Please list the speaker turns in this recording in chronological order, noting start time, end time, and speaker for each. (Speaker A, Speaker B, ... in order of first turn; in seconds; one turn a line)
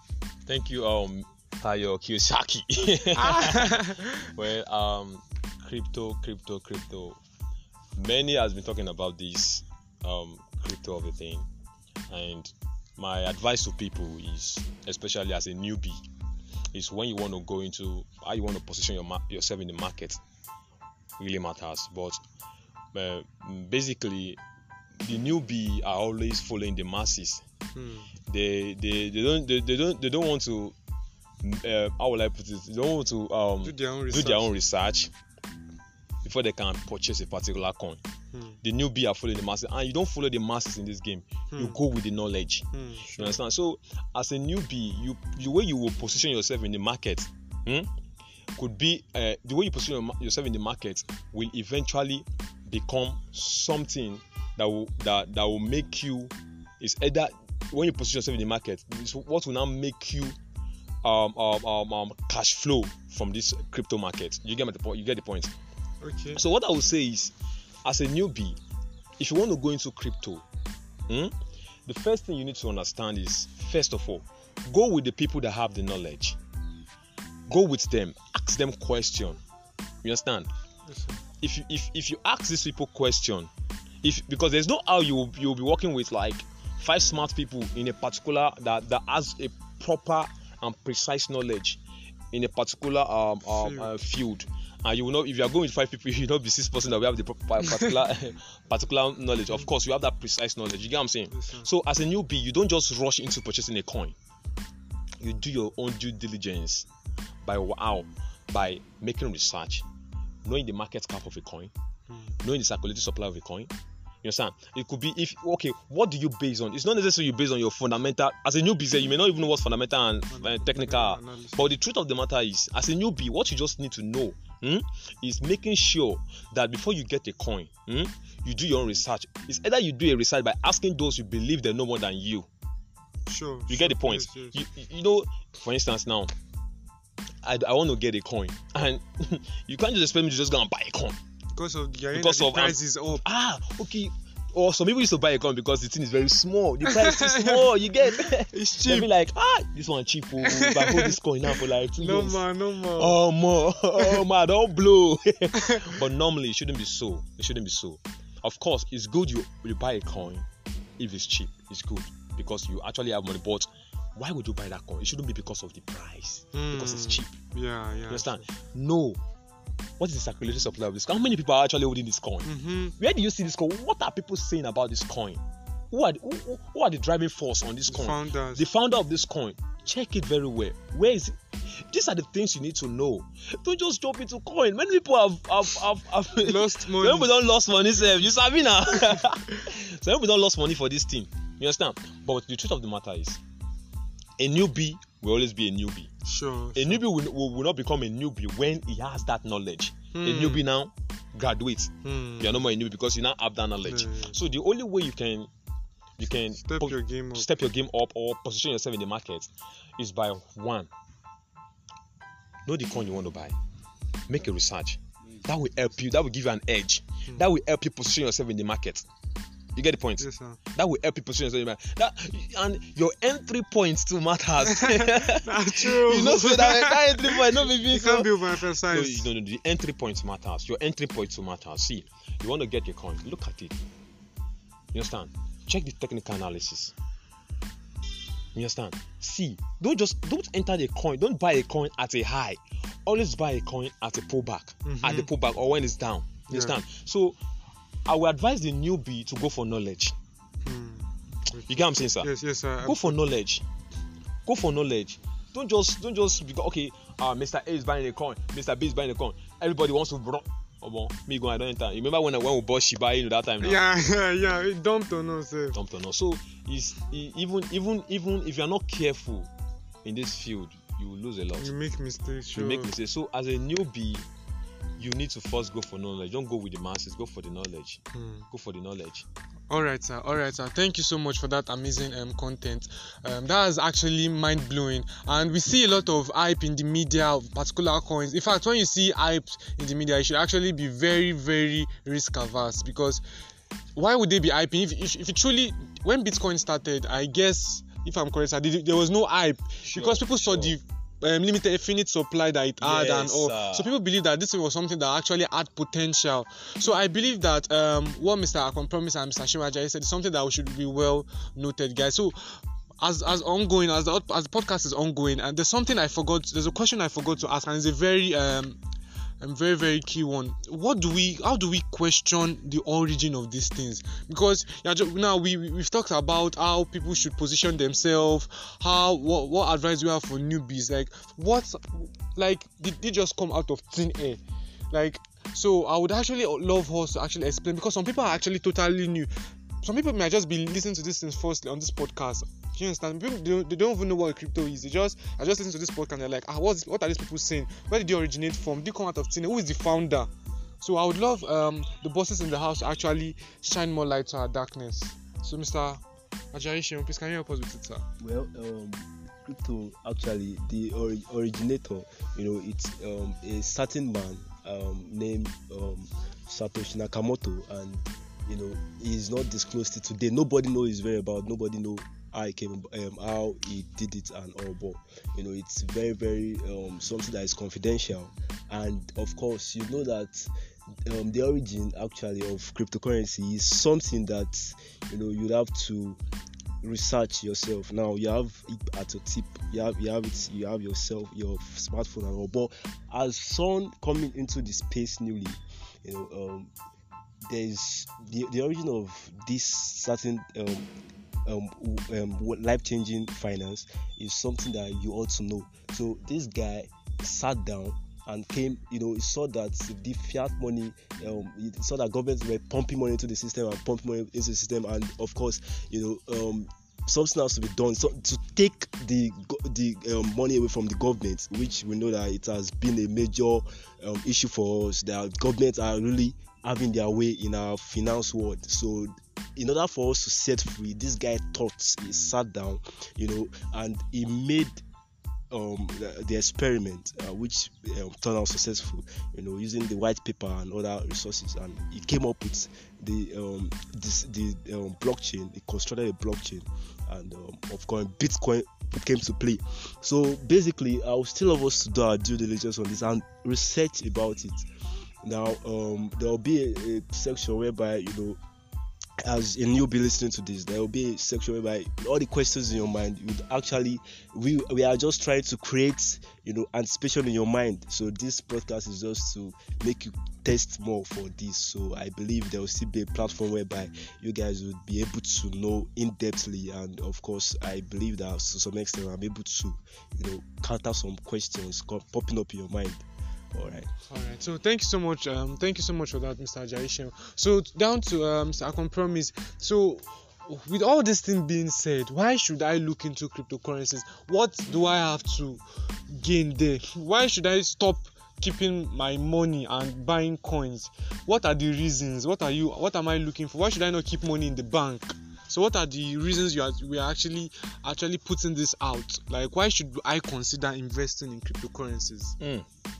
Speaker A: 0.5-7.2
Speaker B: 3.1-4.1
Speaker A: 8.0-11.5
Speaker A: 12.1-16.0
Speaker A: 16.7-20.2
Speaker A: 21.2-22.2
Speaker A: 22.9-24.4
Speaker A: 25.0-27.4
Speaker B: 27.7-28.1
Speaker A: 28.3-30.7
Speaker A: 31.4-35.1
Speaker B: 33.6-34.5
Speaker A: 36.2-38.0
Speaker B: 38.3-38.6
Speaker A: 38.6-47.9
Speaker B: 42.7-43.4
Speaker A: 48.5-60.4
Speaker A: 61.0-65.5
Speaker B: 66.0-66.4
Speaker A: 66.3-67.3
Speaker A: 67.8-68.6
Speaker A: 69.2-70.4
Speaker A: 71.1-71.3
Speaker A: 71.8-76.4
Speaker A: 77.5-79.4
Speaker A: 80.0-80.5
Speaker B: 80.8-81.2
Speaker A: 81.4-83.5
Speaker A: 84.0-91.8
Speaker A: 92.3-104.1
Speaker B: 93.5-93.9
Speaker B: 97.6-97.9
Speaker B: 101.3-101.7
Speaker A: 105.2-106.8
Speaker A: 107.4-109.8
Speaker A: 110.4-111.7
Speaker B: 112.1-112.3
Speaker A: 112.4-113.7
Speaker A: 114.2-132.5
Speaker B: 120.3-121.6
Speaker B: 133.2-134.6
Speaker A: 133.7-136.3
Speaker A: 137.4-141.2
Speaker B: 141.5-143.2
Speaker A: 142.1-152.4
Speaker B: 146.8-149.1
Speaker B: 150.4-153.2
Speaker A: 153.0-160.4
Speaker B: 154.0-154.2
Speaker B: 155.6-156.0
Speaker A: 161.0-167.3
Speaker B: 166.5-168.4
Speaker A: 168.1-169.2
Speaker A: 170.0-193.4
Speaker B: 172.4-172.9
Speaker B: 177.9-178.7
Speaker B: 186.4-187.4
Speaker B: 188.9-189.2
Speaker A: 194.4-196.1
Speaker B: 196.2-197.0
Speaker A: 196.7-205.5
Speaker B: 200.1-200.6
Speaker B: 202.0-202.6
Speaker B: 203.8-204.3
Speaker A: 206.2-210.9
Speaker B: 206.6-207.5
Speaker A: 212.7-213.6
Speaker A: 214.3-219.1
Speaker A: 219.8-233.7
Speaker B: 220.2-220.6
Speaker B: 224.6-229.3
Speaker A: 234.9-236.9
Speaker A: 238.5-247.4
Speaker B: 244.8-245.3
Speaker B: 246.5-246.8
Speaker A: 248.1-250.1
Speaker B: 250.6-253.2
Speaker A: 251.7-252.3
Speaker A: 252.8-253.6
Speaker A: 254.4-263.8
Speaker B: 263.6-265.8
Speaker A: 265.7-269.5
Speaker A: 270.0-271.7
Speaker B: 271.6-272.9
Speaker A: 272.5-274.2
Speaker A: 275.0-279.2
Speaker B: 278.1-278.5
Speaker B: 279.7-293.2
Speaker B: 293.9-318.8
Speaker A: 299.8-300.8
Speaker A: 302.8-303.9
Speaker B: 319.4-339.3
Speaker B: 339.8-356.0
Speaker B: 356.5-358.1
Speaker C: 358.2-380.5
Speaker C: 381.1-386.2
Speaker C: 386.8-396.7
Speaker C: 397.4-400.9
Speaker C: 401.4-434.8
Speaker C: 435.5-454.6
Speaker C: 455.2-458.4
Speaker C: 459.2-483.9
Speaker B: 484.1-512.4
Speaker A: 512.4-512.6